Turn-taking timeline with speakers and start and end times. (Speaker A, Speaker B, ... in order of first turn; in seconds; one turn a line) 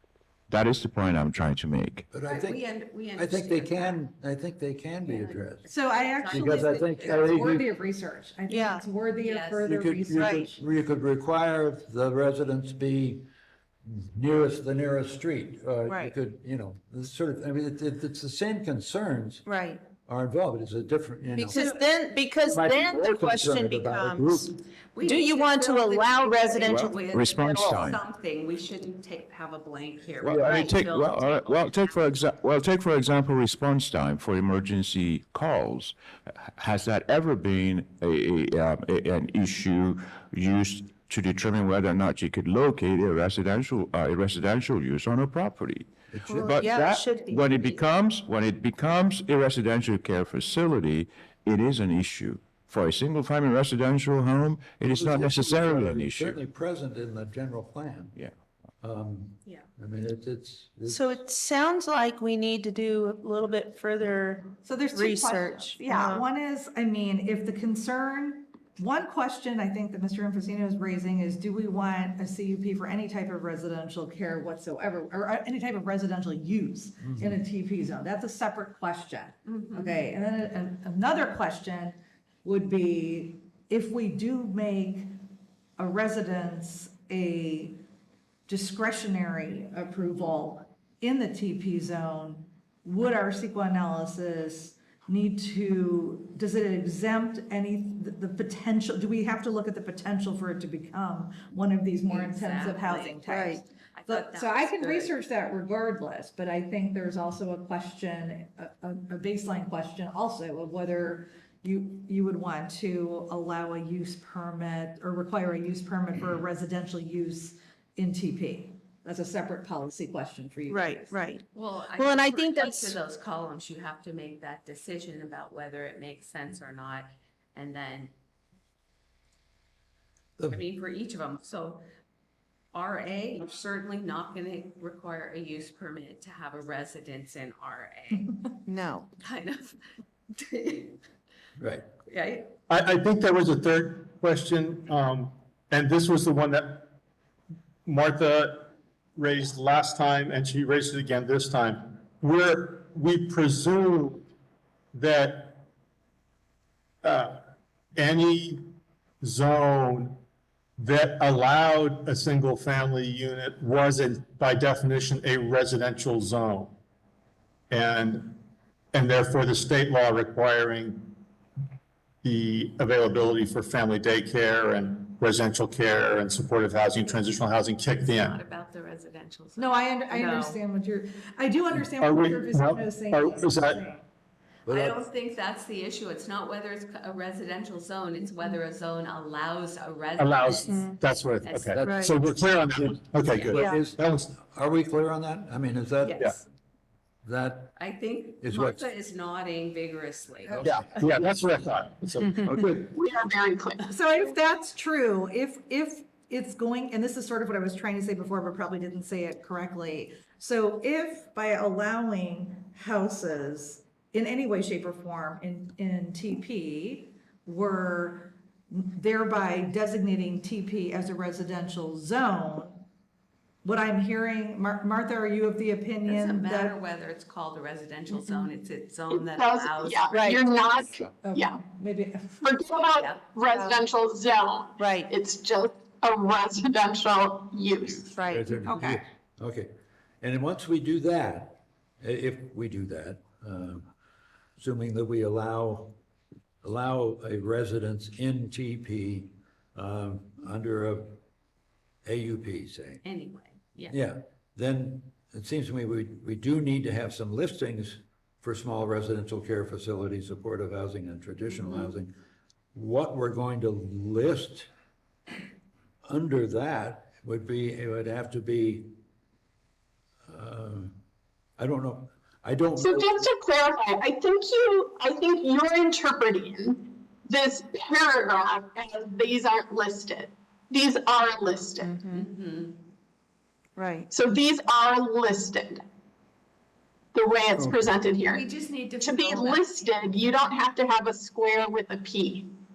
Speaker A: 0.5-2.0
Speaker B: 2.1-5.6
Speaker C: 2.2-4.0
Speaker C: 5.0-7.5
Speaker D: 5.7-10.6
Speaker B: 6.3-7.7
Speaker E: 8.5-8.8
Speaker C: 9.2-9.7
Speaker B: 9.7-13.3
Speaker E: 10.1-10.5
Speaker B: 13.8-19.4
Speaker E: 15.8-16.1
Speaker E: 19.4-19.8
Speaker B: 20.0-21.6
Speaker E: 21.3-24.4
Speaker C: 21.5-21.8
Speaker B: 22.4-24.5
Speaker C: 24.9-32.1
Speaker E: 25.0-26.9
Speaker A: 26.6-28.0
Speaker A: 30.2-56.4
Speaker B: 30.2-30.7
Speaker B: 46.1-46.6
Speaker E: 46.2-47.8
Speaker B: 54.9-58.2
Speaker B: 58.8-61.1
Speaker E: 60.9-66.3
Speaker D: 64.6-85.1
Speaker B: 77.0-77.4
Speaker C: 79.5-80.0
Speaker D: 85.8-87.8
Speaker D: 88.5-121.2
Speaker C: 102.0-105.2
Speaker E: 103.2-103.6
Speaker E: 120.7-121.4
Speaker C: 121.5-128.1
Speaker E: 122.0-123.0
Speaker C: 130.5-131.8
Speaker C: 132.7-138.6
Speaker E: 138.7-139.1
Speaker C: 139.2-139.8
Speaker C: 140.3-141.0
Speaker B: 141.6-141.8
Speaker C: 142.1-142.5
Speaker F: 142.7-146.9
Speaker F: 147.8-154.3
Speaker F: 154.9-155.6
Speaker F: 157.0-157.4
Speaker F: 157.9-158.6
Speaker F: 159.2-160.2
Speaker F: 160.8-166.8
Speaker F: 167.7-168.4
Speaker F: 168.9-171.1
Speaker F: 172.2-178.4
Speaker C: 178.1-180.6
Speaker D: 179.6-184.0
Speaker F: 181.8-183.8
Speaker B: 184.7-185.0
Speaker C: 184.7-190.9
Speaker F: 190.2-194.3
Speaker E: 190.7-191.0
Speaker C: 191.4-191.8
Speaker E: 191.8-192.2
Speaker B: 191.8-196.3
Speaker E: 193.5-193.8
Speaker C: 196.0-196.4
Speaker B: 197.2-197.8
Speaker C: 197.8-200.8
Speaker B: 198.4-198.9
Speaker B: 200.5-200.8
Speaker F: 200.6-202.7
Speaker B: 202.4-202.8
Speaker G: 202.8-203.9
Speaker D: 203.9-222.8
Speaker D: 223.6-226.8
Speaker C: 226.1-230.3
Speaker G: 229.1-231.6
Speaker E: 230.1-230.5
Speaker D: 231.1-232.4
Speaker G: 232.4-238.2
Speaker C: 232.9-233.3
Speaker E: 233.5-233.8
Speaker E: 234.8-235.1
Speaker E: 238.1-239.0
Speaker B: 238.2-239.7
Speaker B: 240.2-243.9
Speaker B: 244.6-245.9
Speaker B: 246.6-251.2
Speaker B: 252.0-253.0
Speaker C: 253.0-253.9
Speaker B: 253.9-262.1
Speaker B: 262.7-264.7
Speaker B: 266.1-268.9
Speaker B: 270.3-271.0
Speaker B: 271.6-273.3
Speaker G: 272.8-281.9
Speaker E: 281.8-282.3
Speaker C: 282.1-282.8
Speaker E: 283.8-284.1
Speaker G: 284.1-285.8
Speaker G: 287.1-288.4
Speaker B: 287.6-287.9
Speaker C: 288.2-289.9
Speaker G: 289.0-292.5